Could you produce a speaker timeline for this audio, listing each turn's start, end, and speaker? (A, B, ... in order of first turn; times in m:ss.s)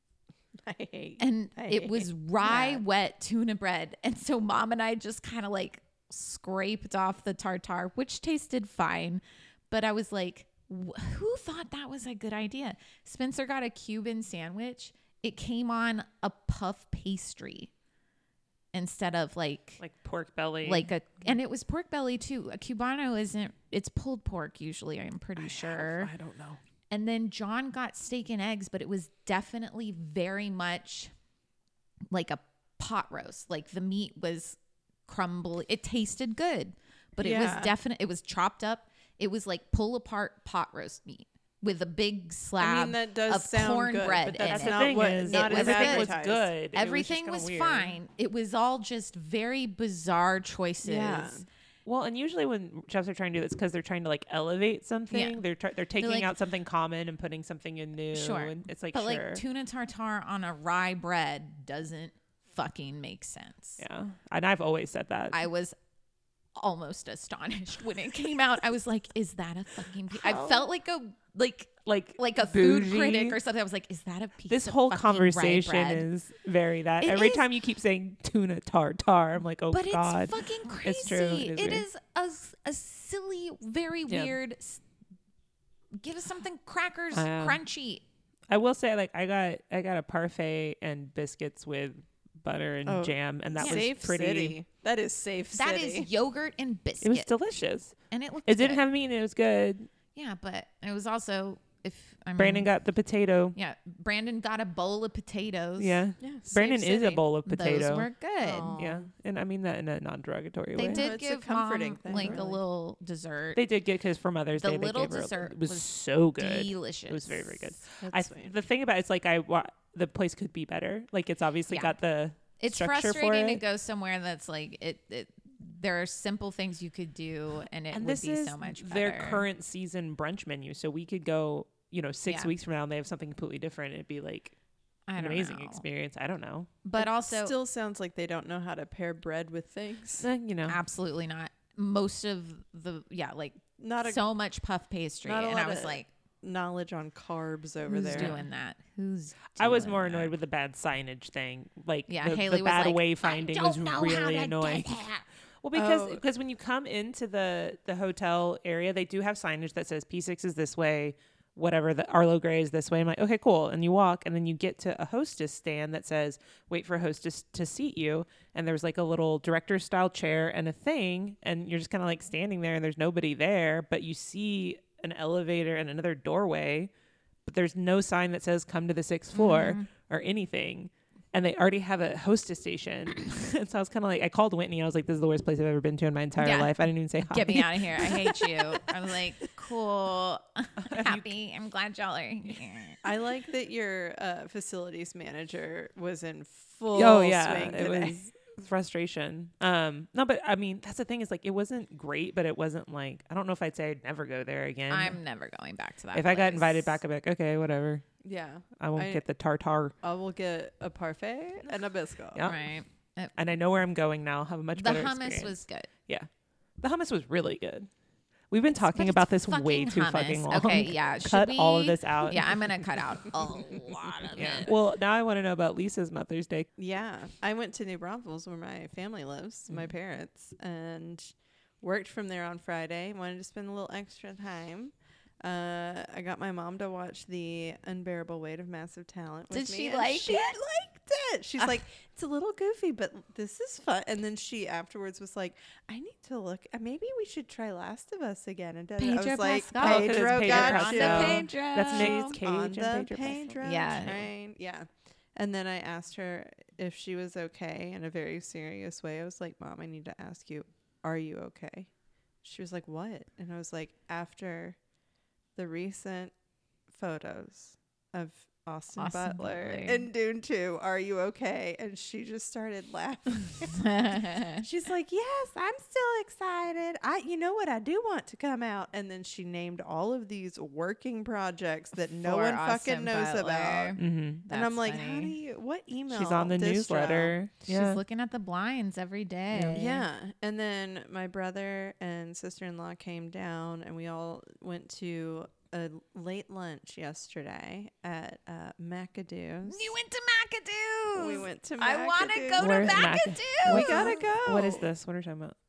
0:00.6-0:02.8 A
0:01.2-0:17.7 B
0:18.7-0:19.8 B
0:19.8-0:20.9 C
0:20.6-0:26.1 B
0:25.4-0:26.6 C
0:26.9-0:31.1 B
0:32.1-0:46.1 B
0:37.2-0:37.7 A
0:42.6-0:46.5 A
0:44.4-0:48.0 C
0:46.7-0:51.4 B
0:50.8-0:51.4 A
0:51.8-0:59.4 C
0:55.1-0:55.4 B
0:56.0-0:56.3 B
0:58.1-1:03.8 B
1:03.8-1:05.4 C
1:05.3-1:05.8 B
1:06.6-1:16.0 B
1:10.1-1:10.7 C
1:11.8-1:13.4 C
1:14.5-1:21.8 C
1:17.0-1:17.4 B
1:19.7-1:24.8 B
1:24.1-1:24.4 C
1:26.0-1:28.0 B
1:27.1-1:27.6 C
1:28.5-1:34.6 C
1:32.8-1:36.1 A
1:33.6-1:33.9 B
1:35.5-1:37.3 B
1:37.0-1:39.9 C
1:38.1-1:38.8 B
1:40.1-1:42.7 B
1:42.4-1:43.6 C
1:43.5-1:46.0 B
1:45.8-1:48.1 C
1:46.2-1:47.0 A
1:46.6-1:48.8 B
1:48.4-1:49.1 A
1:48.8-1:51.1 C
1:50.8-1:53.6 B
1:50.8-1:52.6 A
1:52.1-1:52.5 C
1:53.5-2:03.6 C
1:54.6-1:57.8 B
1:58.0-1:58.6 A
2:01.7-2:02.0 B
2:02.6-2:09.4 B
2:07.9-2:14.6 C
2:12.2-2:12.5 B
2:15.1-2:15.8 B
2:15.2-2:16.7 C
2:16.8-2:17.5 B
2:16.9-2:20.3 A
2:20.2-2:20.8 C
2:20.7-2:26.1 B
2:23.8-2:24.2 A
2:25.2-2:28.4 A
2:27.8-2:30.3 B
2:28.1-2:28.4 C
2:29.6-2:56.9 C
2:32.1-2:35.2 B
2:35.7-2:36.2 A
2:57.4-3:08.2 C
2:59.3-2:59.9 B
3:06.4-3:13.0 B
3:10.8-3:11.3 C
3:13.0-3:18.2 A
3:16.9-3:25.2 C
3:24.9-3:27.0 B
3:26.1-3:28.0 C
3:28.2-3:29.2 A
3:28.8-3:29.9 C
3:30.0-3:32.5 A
3:32.3-3:32.6 C
3:32.4-3:33.3 B
3:33.4-3:37.9 C
3:34.8-3:35.9 B
3:38.5-3:42.8 C
3:38.7-3:44.7 B
3:44.3-3:46.7 C
3:46.8-4:21.9 A
3:59.5-4:00.6 B
4:09.0-4:12.4 B
4:09.7-4:13.6 C
4:13.6-4:14.3 B
4:22.4-4:24.8 A
4:25.6-4:26.3 A
4:26.9-4:47.4 A
4:29.0-4:30.0 B
4:33.7-4:34.6 B
4:42.2-4:45.3 B
4:44.0-4:44.4 C
4:46.1-4:48.0 C
4:47.7-4:50.0 B
4:49.5-4:49.8 C
4:49.7-4:59.9 A
4:59.6-5:04.1 B
5:01.1-5:04.9 A
5:02.6-5:05.5 C